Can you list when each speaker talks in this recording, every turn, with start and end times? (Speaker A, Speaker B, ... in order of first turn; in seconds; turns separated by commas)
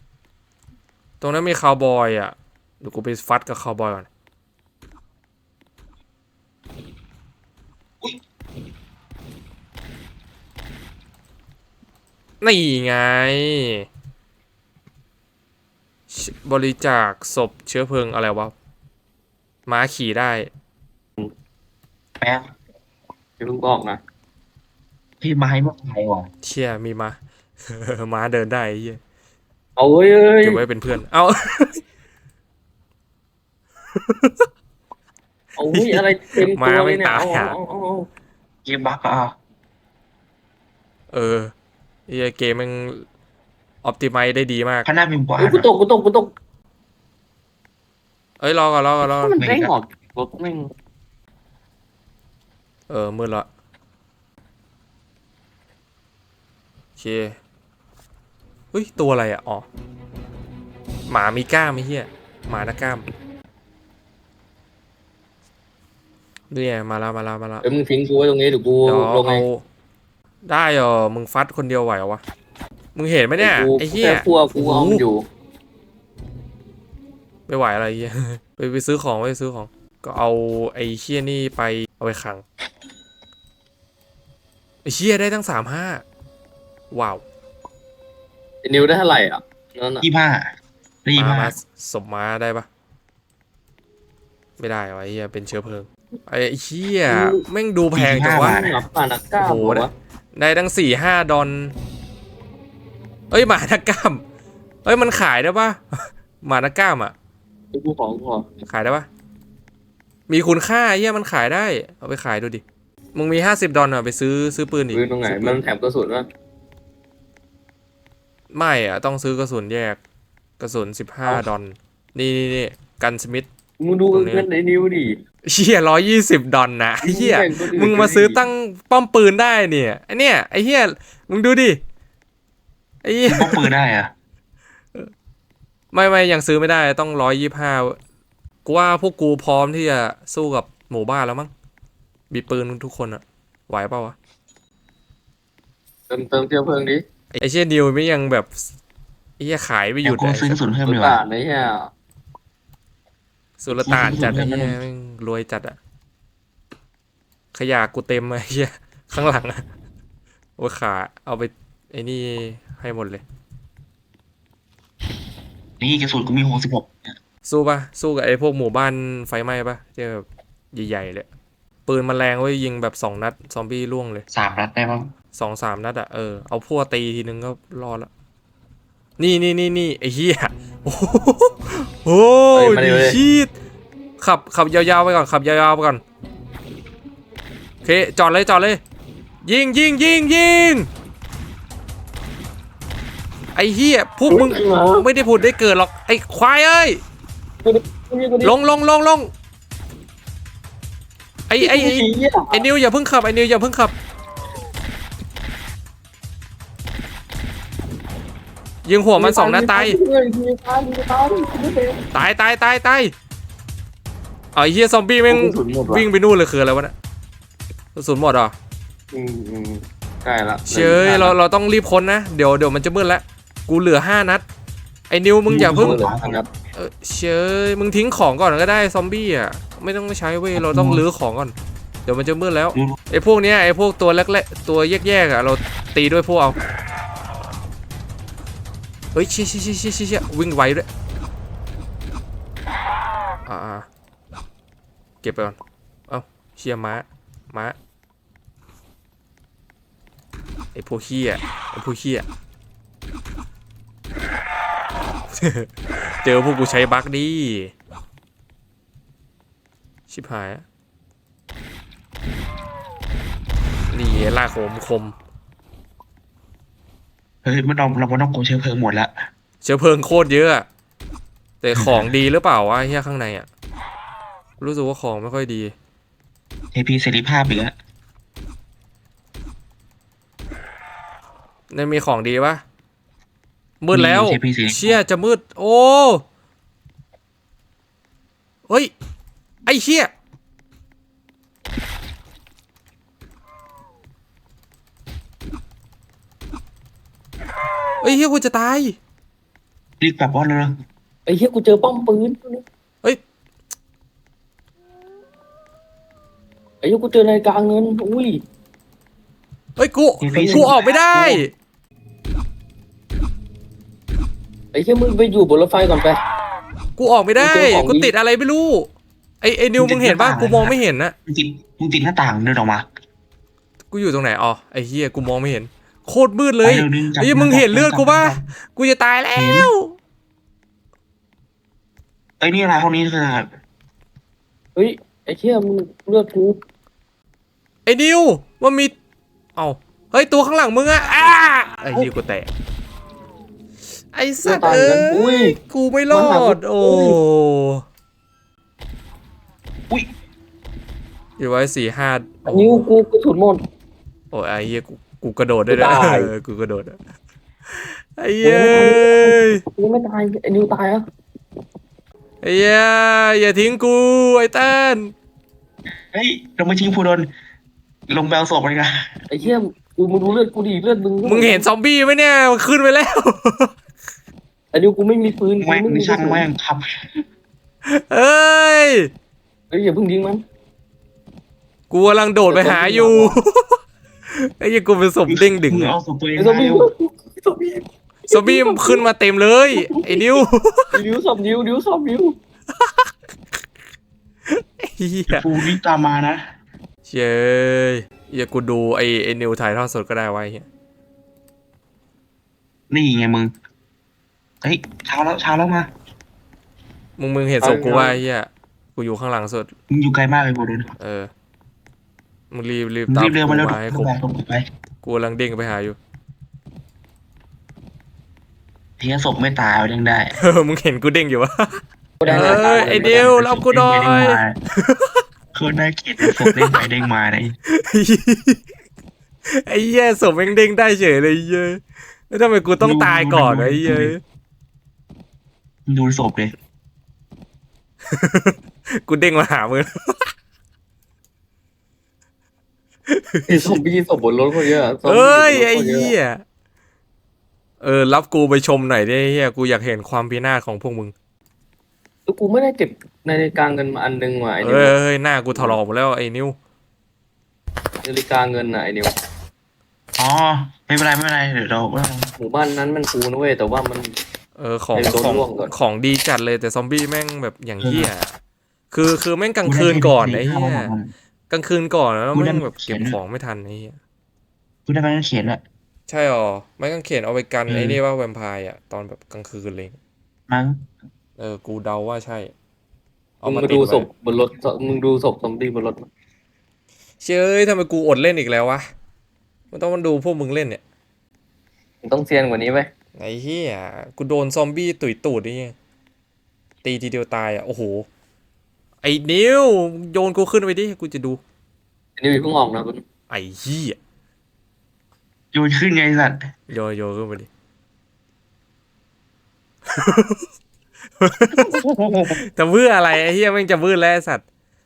Speaker A: 1.2-4.1, Speaker A: 12.4-13.9, Speaker A: 16.1-18.5, Speaker A: 19.7-20.5, Speaker B: 22.2-22.5, Speaker C: 23.4-24.0, Speaker B: 25.2-26.3, Speaker A: 26.4-27.2, Speaker A: 27.7-29.0, Speaker C: 29.8-30.6, Speaker A: 30.4-31.8, Speaker A: 34.0-34.5, Speaker C: 35.6-38.1, Speaker A: 35.7-37.6, Speaker B: 38.6-39.3, Speaker A: 41.1-41.5, Speaker A: 42.1-43.1, Speaker A: 43.8-44.9, Speaker B: 44.9-45.7, Speaker C: 45.4-46.3, Speaker A: 48.4-49.4, Speaker C: 49.0-50.7, Speaker B: 49.4-49.8, Speaker A: 52.9-53.5, Speaker A: 57.0-57.4, Speaker A: 58.7-59.7, Speaker A: 61.1-63.0, Speaker A: 66.5-67.7, Speaker C: 67.6-69.5, Speaker A: 68.8-69.6, Speaker A: 70.5-72.2, Speaker A: 73.0-75.0, Speaker C: 73.4-75.2, Speaker A: 77.5-82.4, Speaker A: 84.8-86.0, Speaker A: 86.9-87.2, Speaker C: 88.6-90.0, Speaker B: 90.0-90.5, Speaker B: 91.0-91.5, Speaker A: 91.2-92.7, Speaker A: 94.6-98.6, Speaker C: 97.1-97.4, Speaker B: 97.9-98.8, Speaker C: 98.2-99.9, Speaker A: 99.4-101.7, Speaker A: 103.3-104.2, Speaker A: 104.8-107.1, Speaker C: 107.7-108.5, Speaker A: 108.7-109.1, Speaker A: 110.3-112.6, Speaker A: 113.2-115.6, Speaker C: 114.9-116.3, Speaker A: 118.5-120.0, Speaker A: 120.6-123.5, Speaker C: 123.8-125.2, Speaker A: 124.1-124.5, Speaker A: 125.5-131.8, Speaker C: 127.0-128.4, Speaker A: 133.0-133.7, Speaker B: 133.3-134.1, Speaker A: 135.9-138.0, Speaker A: 138.7-141.5, Speaker A: 142.3-144.2, Speaker C: 146.1-147.0, Speaker A: 147.3-148.7, Speaker A: 149.4-150.6, Speaker B: 150.0-151.2, Speaker C: 150.8-151.9, Speaker A: 153.6-155.8, Speaker B: 153.7-154.8, Speaker A: 157.5-159.7, Speaker A: 160.6-163.2, Speaker B: 165.8-167.2, Speaker A: 167.5-171.3, Speaker A: 171.9-174.2, Speaker B: 174.3-175.1, Speaker A: 175.3-178.1, Speaker A: 179.2-183.5, Speaker C: 182.5-183.2, Speaker A: 184.2-186.0, Speaker A: 187.8-188.8, Speaker A: 189.4-190.9, Speaker A: 193.6-197.0, Speaker C: 194.3-195.1, Speaker C: 197.6-198.5, Speaker A: 198.4-199.3, Speaker A: 201.5-203.9, Speaker C: 201.6-202.7, Speaker A: 208.8-210.0, Speaker C: 209.2-212.0, Speaker A: 212.1-213.1, Speaker A: 214.6-216.9, Speaker C: 215.3-216.1, Speaker A: 217.9-218.5, Speaker C: 219.1-221.4, Speaker A: 220.7-224.4, Speaker A: 225.1-226.0, Speaker B: 225.5-226.5, Speaker C: 225.6-226.5, Speaker A: 226.8-231.5, Speaker B: 230.6-231.0, Speaker A: 232.1-236.6, Speaker A: 239.1-240.9, Speaker A: 243.5-243.9, Speaker A: 245.2-245.6, Speaker A: 246.1-247.8, Speaker A: 250.8-252.2, Speaker A: 255.3-255.7, Speaker A: 256.2-257.7, Speaker A: 260.1-260.6, Speaker A: 263.9-265.1, Speaker B: 267.4-269.2, Speaker A: 269.6-270.7, Speaker A: 271.6-273.5, Speaker B: 271.8-272.1, Speaker A: 274.6-275.7, Speaker B: 276.7-277.8, Speaker A: 281.7-282.6, Speaker A: 283.8-286.2, Speaker B: 283.9-285.0, Speaker A: 289.7-290.1, Speaker A: 298.0-299.0, Speaker B: 300.0-300.8, Speaker C: 301.3-302.6, Speaker C: 306.8-308.4, Speaker A: 309.8-311.5, Speaker B: 310.2-311.4, Speaker C: 314.7-316.2, Speaker A: 317.0-318.9, Speaker C: 317.4-318.1, Speaker A: 319.4-321.1, Speaker B: 319.8-322.9, Speaker A: 323.9-330.0, Speaker B: 326.6-328.5, Speaker B: 329.4-329.7, Speaker B: 332.4-333.5, Speaker C: 334.8-336.6, Speaker A: 337.9-338.9, Speaker A: 339.6-342.5, Speaker A: 344.1-347.8, Speaker C: 344.4-345.6, Speaker C: 346.1-347.2, Speaker A: 351.4-352.9, Speaker C: 352.5-353.6, Speaker A: 354.3-357.0, Speaker C: 355.7-356.3, Speaker A: 357.7-359.6, Speaker C: 358.4-361.0, Speaker A: 362.4-365.1, Speaker B: 366.1-367.3, Speaker B: 368.1-369.2, Speaker C: 369.3-371.7, Speaker A: 371.2-373.7, Speaker C: 374.7-376.5, Speaker B: 375.6-377.2, Speaker A: 377.9-379.1, Speaker C: 379.7-380.4, Speaker A: 381.9-383.8, Speaker C: 382.5-383.4, Speaker A: 384.3-385.9, Speaker B: 385.3-386.9, Speaker C: 386.4-389.0, Speaker A: 388.3-390.9, Speaker C: 389.8-390.4, Speaker C: 390.9-392.4, Speaker A: 392.8-393.1, Speaker A: 394.5-395.5, Speaker B: 395.3-396.4, Speaker A: 397.1-400.7, Speaker B: 402.9-403.5, Speaker B: 404.6-405.9, Speaker A: 407.2-409.7, Speaker C: 407.6-408.2, Speaker B: 409.9-410.9, Speaker A: 411.0-411.3, Speaker A: 412.5-414.1, Speaker B: 413.1-414.6, Speaker A: 415.0-416.0, Speaker B: 419.0-420.3, Speaker A: 420.3-425.2, Speaker C: 422.2-423.3, Speaker B: 422.3-424.6, Speaker B: 425.5-427.6, Speaker A: 426.2-426.8, Speaker A: 427.7-428.6, Speaker A: 429.5-434.2, Speaker B: 432.8-434.1, Speaker B: 435.9-436.6, Speaker A: 438.1-440.3, Speaker A: 443.1-443.8, Speaker C: 443.5-446.1, Speaker A: 445.1-446.4, Speaker A: 447.8-451.1, Speaker C: 452.3-455.0, Speaker A: 454.6-456.6, Speaker C: 455.5-455.8, Speaker C: 458.0-459.1, Speaker B: 460.2-462.3, Speaker C: 462.4-464.1, Speaker A: 464.6-468.3, Speaker C: 464.9-465.7, Speaker B: 467.8-468.1, Speaker A: 468.9-470.9, Speaker B: 469.6-471.1, Speaker A: 471.5-474.0, Speaker B: 472.3-473.2, Speaker B: 474.9-475.6, Speaker A: 476.1-480.0, Speaker B: 477.7-478.0, Speaker B: 480.5-480.9, Speaker A: 481.4-482.5, Speaker A: 483.4-484.1, Speaker C: 483.4-486.1, Speaker A: 487.2-488.9, Speaker A: 489.7-490.8, Speaker C: 492.0-492.9, Speaker A: 493.2-495.8, Speaker A: 496.8-498.1, Speaker A: 499.0-501.4, Speaker C: 502.2-503.0, Speaker A: 503.3-504.0, Speaker B: 505.5-506.5, Speaker A: 506.7-507.5, Speaker A: 509.9-510.5, Speaker A: 511.2-511.8, Speaker B: 511.6-512.4, Speaker A: 512.4-514.4